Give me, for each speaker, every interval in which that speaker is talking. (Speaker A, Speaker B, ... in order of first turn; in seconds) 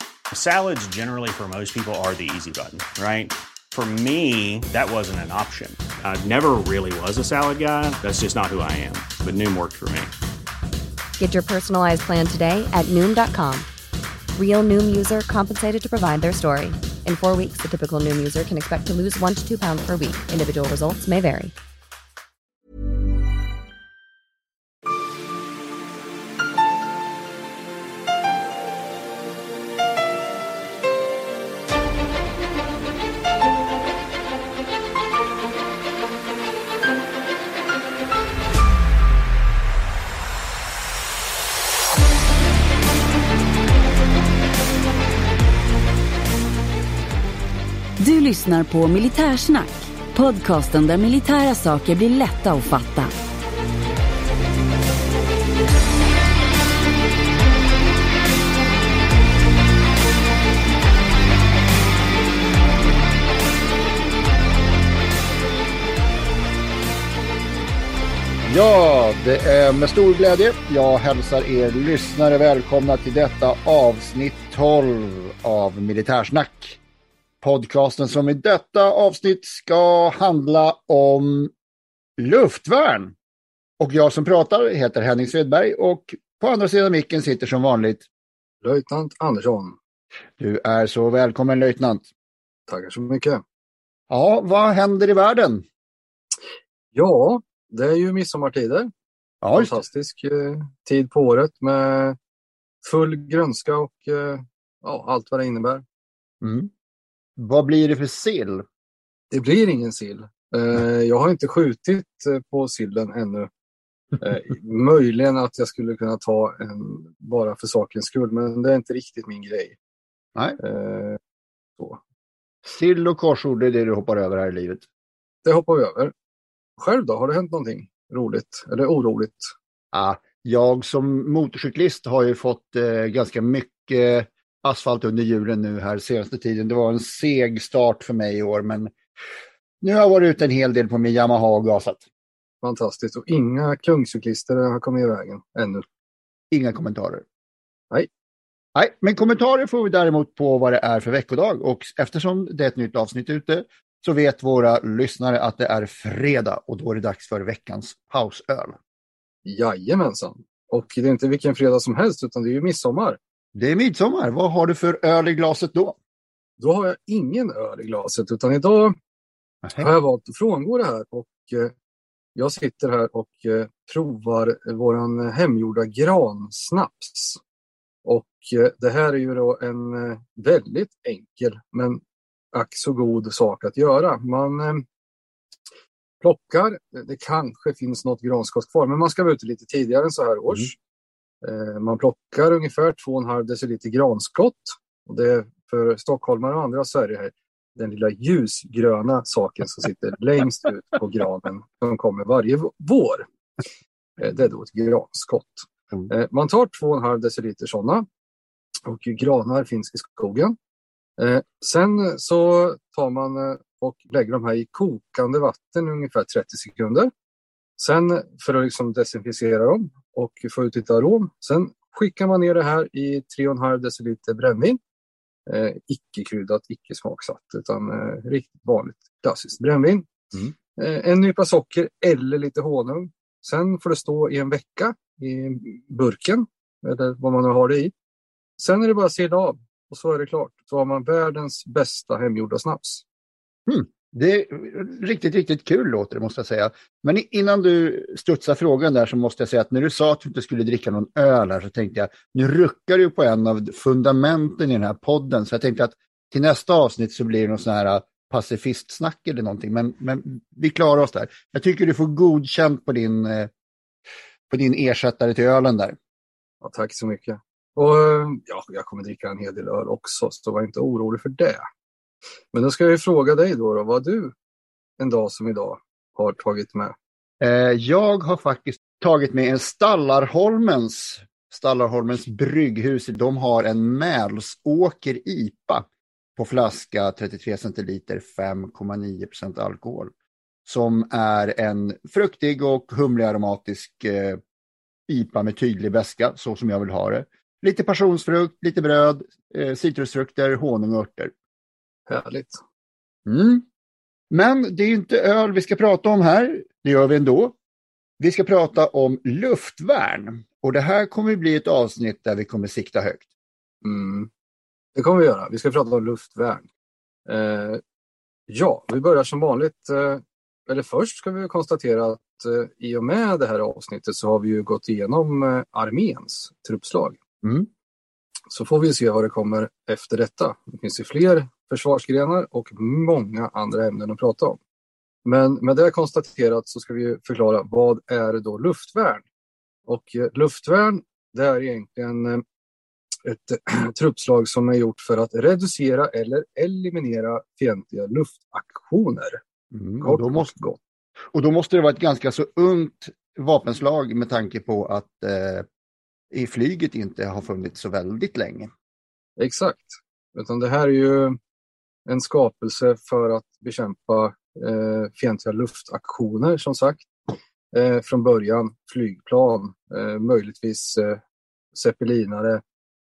Speaker A: 0.3-10.1
Speaker B: 11.2-13.7, 14.3-21.5
Speaker C: 48.0-53.1
Speaker D: 68.5-76.8, 77.4-81.5, 82.2-83.1, 83.8-88.0, 90.4-92.1, 94.1-95.6, 99.4-99.8, 106.4-106.7, 107.4-108.7, 122.7-124.8, 129.9-138.9, 139.8-142.0, 146.5-147.2, 148.7-158.8, 163.5-166.0, 169.6-169.9, 243.7-263.5, 264.5-266.0, 277.4-290.1, 290.6-294.4, 295.1-301.3, 303.2-303.6, 304.3-307.6, 308.2-313.3, 327.4-327.7, 349.7-350.5, 351.3-355.6, 356.3-358.7
Speaker E: 88.6-89.8, 92.7-93.4, 96.9-98.9, 99.5-102.2, 102.8-105.8, 109.3-113.5, 114.2-119.8, 120.6-121.2, 125.4-126.1, 126.8-129.5, 142.6-145.8, 159.4-163.2, 166.6-168.9, 169.8-171.7, 172.3-177.4, 178.0-182.0, 182.5-184.8, 186.2-190.8, 191.4-203.2, 204.2-208.1, 208.8-210.6, 211.2-217.1, 217.8-224.8, 225.5-230.2, 230.8-237.9, 238.6-243.0, 266.6-271.6, 272.5-274.3, 275.0-276.9, 302.1-302.6, 313.8-314.3, 314.9-316.6, 317.2-317.8, 318.5-327.2, 328.5-334.6, 335.2-339.2, 339.9-342.4, 343.2-349.4, 350.0-350.8, 359.4-361.4, 362.1-371.2, 371.7-372.6